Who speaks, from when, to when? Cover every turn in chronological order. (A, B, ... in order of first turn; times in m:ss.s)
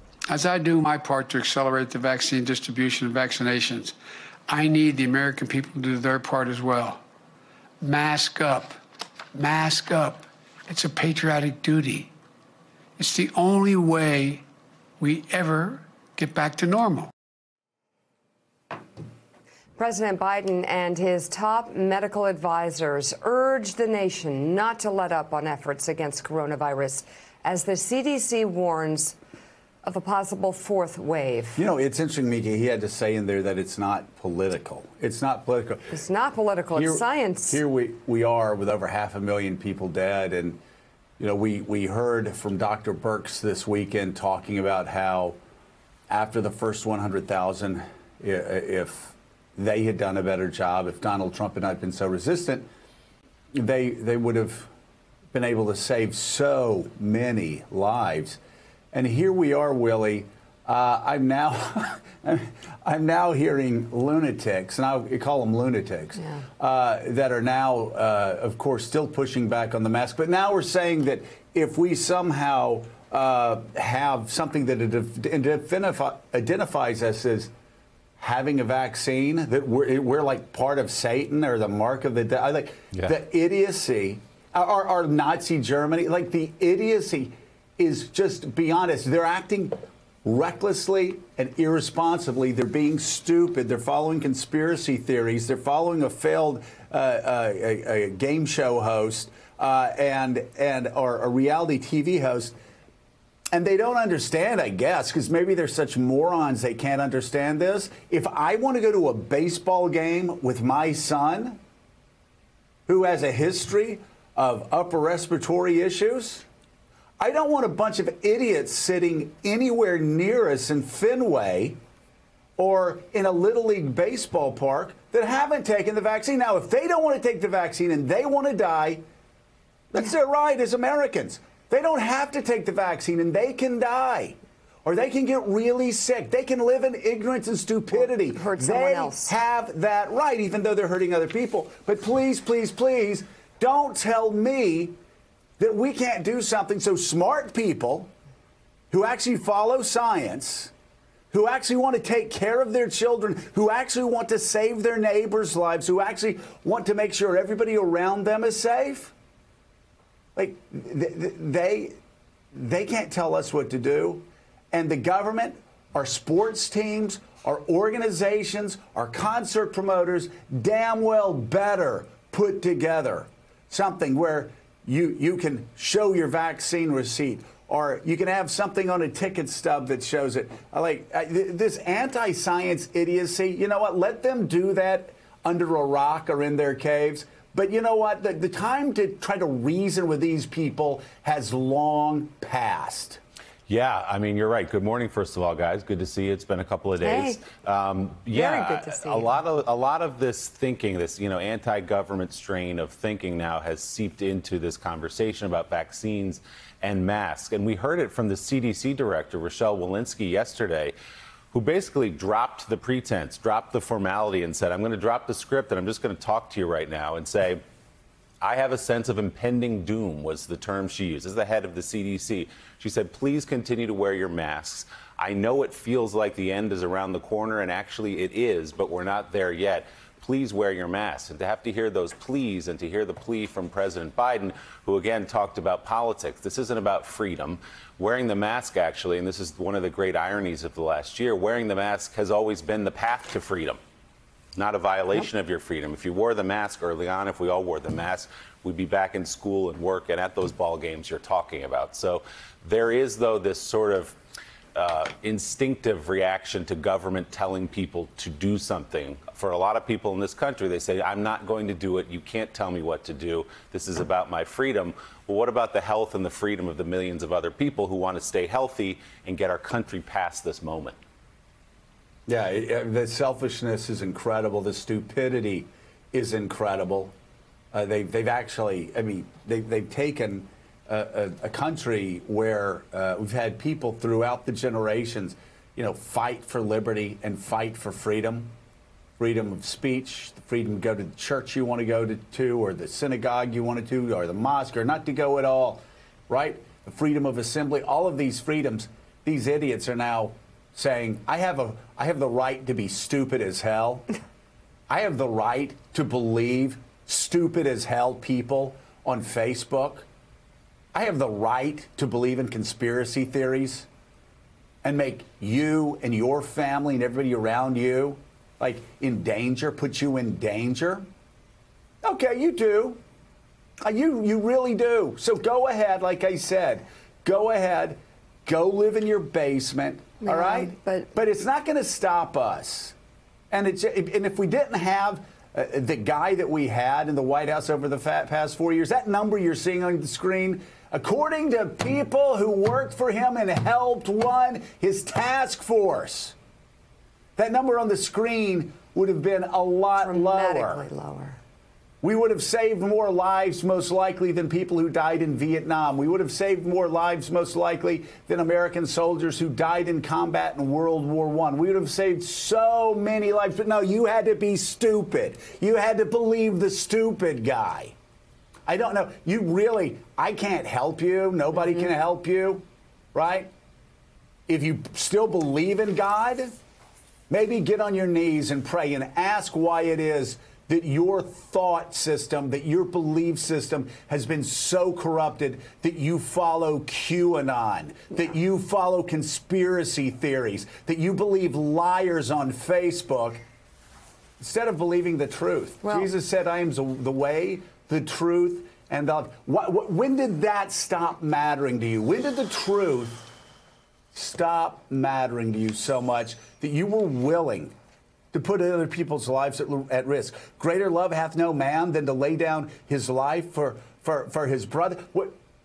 0:00.3-0:03.9 A
0:04.5-0:07.0 A
0:07.8-0:08.7 A
0:09.3-0:12.1 A
0:13.0-0:14.4 A
0:15.0-0:17.0 A
0:19.8-0:29.2 B
0:29.8-0:31.6 B
0:31.6-0:35.9 C
0:35.9-0:37.6 B
0:36.7-0:40.6 C
0:41.2-0:45.4 C
0:46.1-0:52.7 C
0:53.5-0:54.7 C
0:55.3-0:58.4 C
0:58.9-1:17.5 C
1:18.2-1:42.6 C
1:43.5-1:51.6 C
1:52.9-1:56.4 C
1:57.2-2:01.8 C
2:02.6-2:09.0 C
2:09.9-2:24.9 C
2:18.0-2:19.3 B
2:25.6-2:28.1 C
2:28.9-2:30.7 C
2:31.3-2:39.1 C
2:40.4-2:42.0 C
2:42.5-3:13.2 C
3:13.7-3:30.9 D
3:17.0-3:17.4 B
3:18.3-3:19.4 B
3:31.5-3:37.6 D
3:38.4-4:03.8 D
4:04.6-4:14.2 D
4:14.8-4:31.0 D
4:32.3-4:37.1 C
4:37.7-4:48.5 C
4:49.2-5:04.1 C
5:04.9-5:10.0 C
5:10.9-5:13.8 C
5:14.8-5:21.0 C
5:22.0-5:23.0 C
5:23.8-5:32.9 C
5:30.2-5:31.1 B
5:33.5-5:46.3 C
5:47.4-5:50.8 C
5:50.0-5:51.4 B
5:52.0-6:07.9 C
6:08.7-6:12.6 C
6:13.1-6:13.5 C
6:14.5-6:16.5 C
6:17.3-6:33.4 C
6:34.4-6:43.3 C
6:35.8-6:36.1 B
6:44.1-6:47.7 C
6:48.3-6:55.3 C